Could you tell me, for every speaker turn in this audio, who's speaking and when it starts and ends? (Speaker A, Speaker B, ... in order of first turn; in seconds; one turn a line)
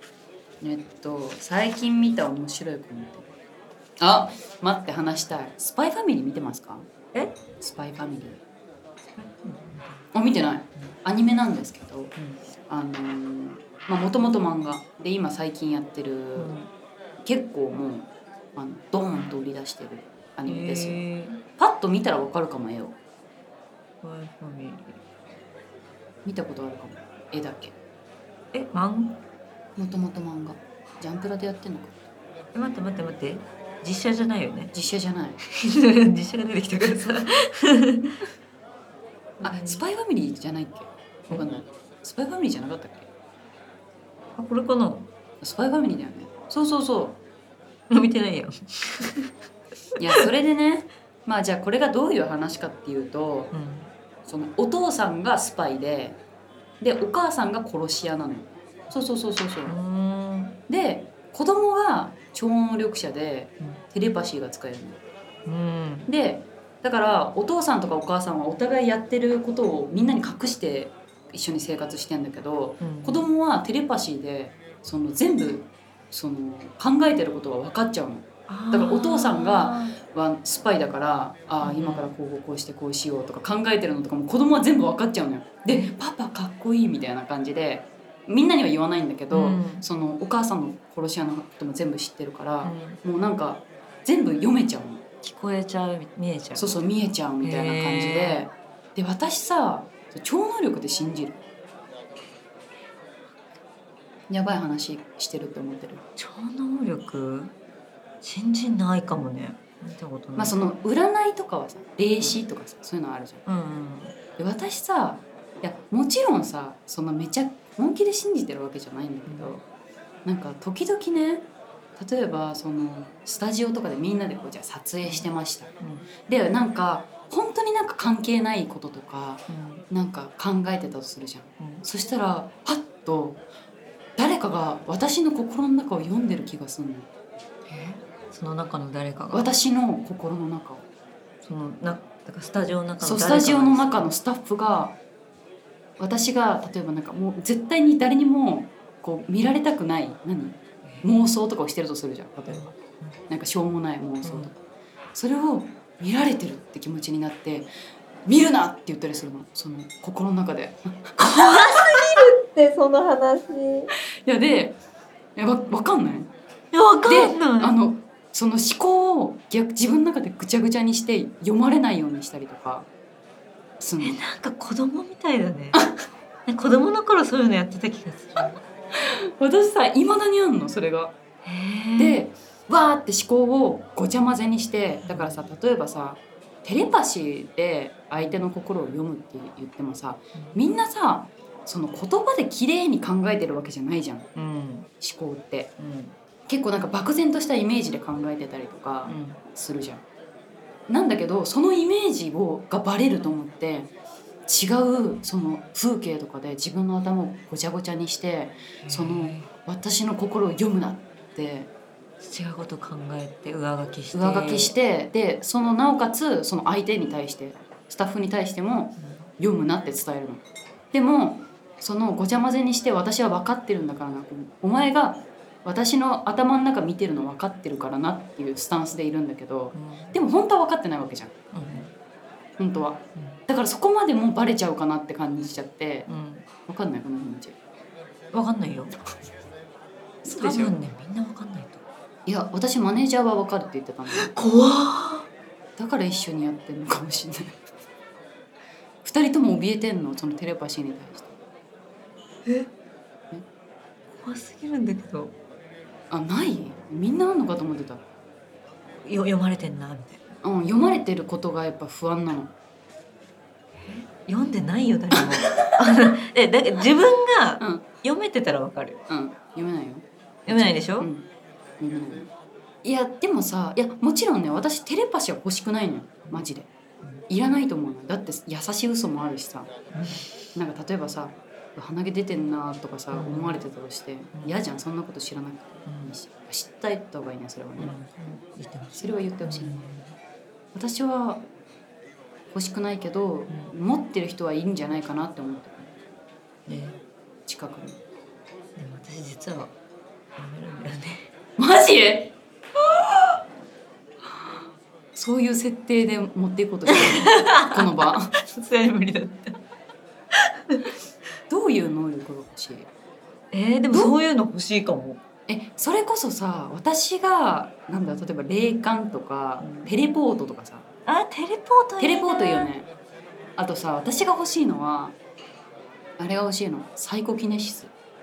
Speaker A: 0.6-3.3
Speaker A: 4.0-6.9
Speaker A: 7.6-8.4
Speaker B: 9.2-10.1
Speaker A: 10.1-12.2
Speaker B: 12.2-12.4
Speaker A: 12.7-16.5
Speaker B: 16.4-16.7
Speaker A: 17.2-21.0
Speaker B: 20.5-21.4
Speaker A: 21.6-23.0
Speaker B: 24.0-25.0
Speaker A: 26.2-27.7
Speaker B: 28.5-29.2
Speaker A: 29.8-32.0
Speaker B: 32.5-34.7
Speaker A: 34.7-35.4
Speaker B: 35.6-38.1
Speaker B: 39.4-39.8
Speaker A: 39.4-43.1
Speaker B: 44.4-45.1
Speaker A: 45.4-47.2
Speaker B: 47.9-49.3
Speaker A: 50.0-53.5
Speaker B: 53.5-53.9
Speaker A: 54.2-56.2
Speaker A: 56.8-59.8
Speaker B: 59.7-60.6
Speaker A: 60.7-65.0
Speaker B: 65.5-66.1
Speaker A: 66.1-95.0
Speaker B: 72.8-73.3
Speaker B: 78.5-80.0
Speaker B: 81.6-82.1
Speaker B: 85.7-85.9
Speaker B: 89.3-89.8
Speaker B: 92.6-93.0
Speaker B: 95.2-96.8
Speaker A: 96.5-101.4
Speaker B: 97.4-98.5
Speaker A: 104.3-106.0
Speaker B: 106.2-107.5
Speaker B: 108.2-110.6
Speaker A: 110.4-113.4
Speaker B: 113.5-114.2
Speaker A: 114.4-119.6
Speaker B: 119.3-119.5
Speaker A: 120.2-125.7
Speaker B: 125.0-126.1
Speaker A: 126.3-133.4
Speaker B: 129.5-129.8
Speaker B: 131.6-131.8
Speaker A: 134.2-137.1
Speaker B: 137.7-139.5
Speaker A: 139.3-140.8
Speaker B: 141.4-144.1
Speaker A: 143.0-145.0
Speaker A: 146.0-152.7
Speaker B: 152.5-153.2
Speaker A: 153.3-154.6
Speaker B: 154.2-154.5
Speaker A: 155.1-157.7
Speaker A: 158.3-162.1
Speaker B: 161.2-163.9
Speaker A: 164.2-164.8
Speaker A: 165.4-166.3
Speaker B: 166.7-167.8
Speaker A: 167.0-172.9
Speaker A: 173.8-174.2
Speaker B: 174.0-175.8
Speaker B: 176.5-178.6
Speaker A: 179.0-181.2
Speaker B: 181.4-182.2
Speaker A: 182.0-194.3
Speaker B: 185.0-185.4
Speaker B: 188.2-188.4
Speaker B: 190.3-190.6
Speaker B: 194.3-194.9
Speaker A: 195.0-195.7
Speaker B: 195.8-196.2
Speaker A: 196.5-200.0
Speaker B: 199.1-199.4
Speaker A: 200.9-203.9
Speaker A: 204.5-211.7
Speaker B: 208.8-209.5
Speaker B: 212.2-214.8
Speaker A: 214.1-231.3
Speaker B: 219.0-219.3
Speaker B: 229.7-230.2
Speaker B: 231.5-231.9
Speaker A: 232.6-236.1
Speaker B: 236.1-236.5
Speaker A: 236.7-237.6
Speaker B: 238.3-238.9
Speaker A: 240.2-240.8
Speaker B: 240.3-241.8
Speaker A: 242.3-244.3
Speaker B: 244.1-245.3
Speaker A: 245.8-247.6
Speaker A: 249.0-251.3
Speaker B: 254.1-255.3
Speaker A: 256.1-258.0
Speaker B: 259.0-260.3
Speaker A: 260.4-262.5
Speaker B: 263.8-269.0
Speaker A: 267.6-267.9
Speaker A: 269.1-271.3
Speaker B: 270.5-271.1
Speaker A: 271.8-272.3
Speaker A: 272.8-276.7
Speaker A: 277.3-279.8
Speaker B: 279.9-280.4
Speaker A: 280.5-287.9
Speaker B: 283.1-283.6
Speaker B: 285.9-286.1
Speaker B: 287.8-290.1
Speaker A: 289.0-289.9
Speaker A: 290.7-291.5
Speaker A: 292.5-295.9
Speaker B: 293.5-293.7
Speaker B: 296.7-297.0
Speaker A: 297.5-298.0
Speaker B: 298.8-299.7
Speaker B: 300.4-301.3
Speaker A: 301.6-302.4
Speaker A: 305.1-308.3
Speaker B: 307.2-309.6
Speaker A: 311.5-312.9
Speaker B: 313.5-315.2
Speaker A: 315.5-320.9
Speaker B: 319.6-319.9
Speaker B: 321.1-322.7
Speaker A: 322.0-322.9
Speaker A: 323.6-325.2
Speaker A: 326.2-327.9